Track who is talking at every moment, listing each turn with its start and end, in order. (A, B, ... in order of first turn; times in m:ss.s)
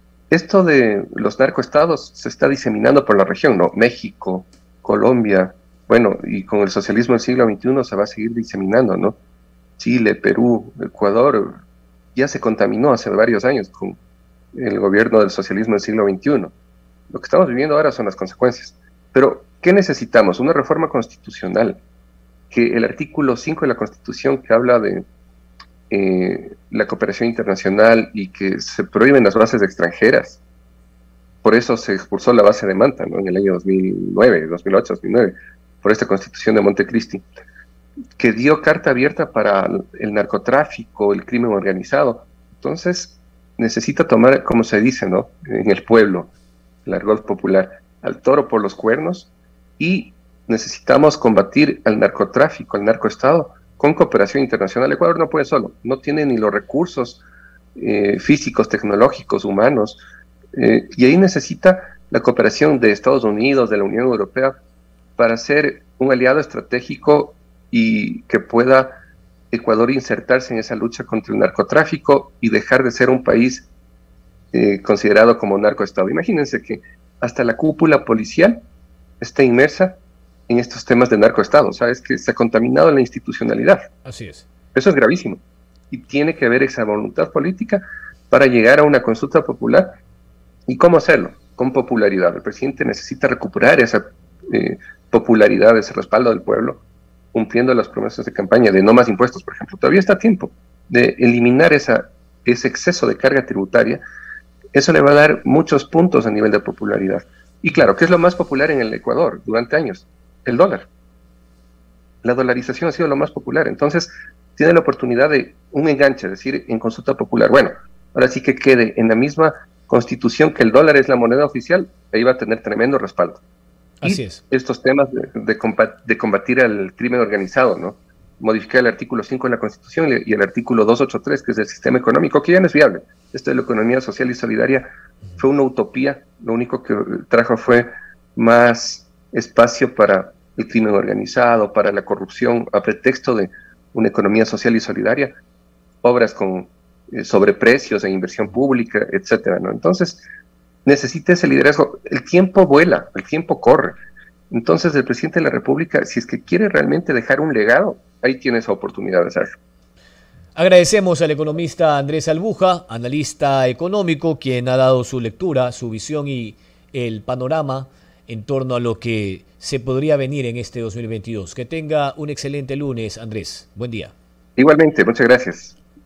0:00.3-0:09.2 A
0:09.8-0:11.6 A
0:12.2-0:14.0 A
0:14.5-0:16.5 A
0:17.1-0:21.8 A
0:22.5-0:25.1 A
0:25.9-0:30.4 A
0:31.4-0:37.2 A
0:38.2-0:46.3 A
0:46.9-0:57.2 A
0:57.8-1:00.0 A
1:00.6-1:04.6 A
1:05.2-1:09.0 A
1:09.5-1:13.7 A
1:14.5-1:18.6 A
1:19.2-1:20.0 A
1:20.5-1:23.9 A
1:24.0-1:24.5 B
1:24.7-1:30.0 A
1:30.7-1:36.8 A
1:37.3-1:44.0 A
1:44.7-1:50.9 A
1:52.2-2:03.4 A
2:04.0-2:04.4 B
2:04.0-2:25.4 A
2:26.0-2:30.2 A
2:30.8-2:34.0 A
2:34.5-2:39.6 A
2:40.6-2:54.1 B
2:54.6-2:55.8 A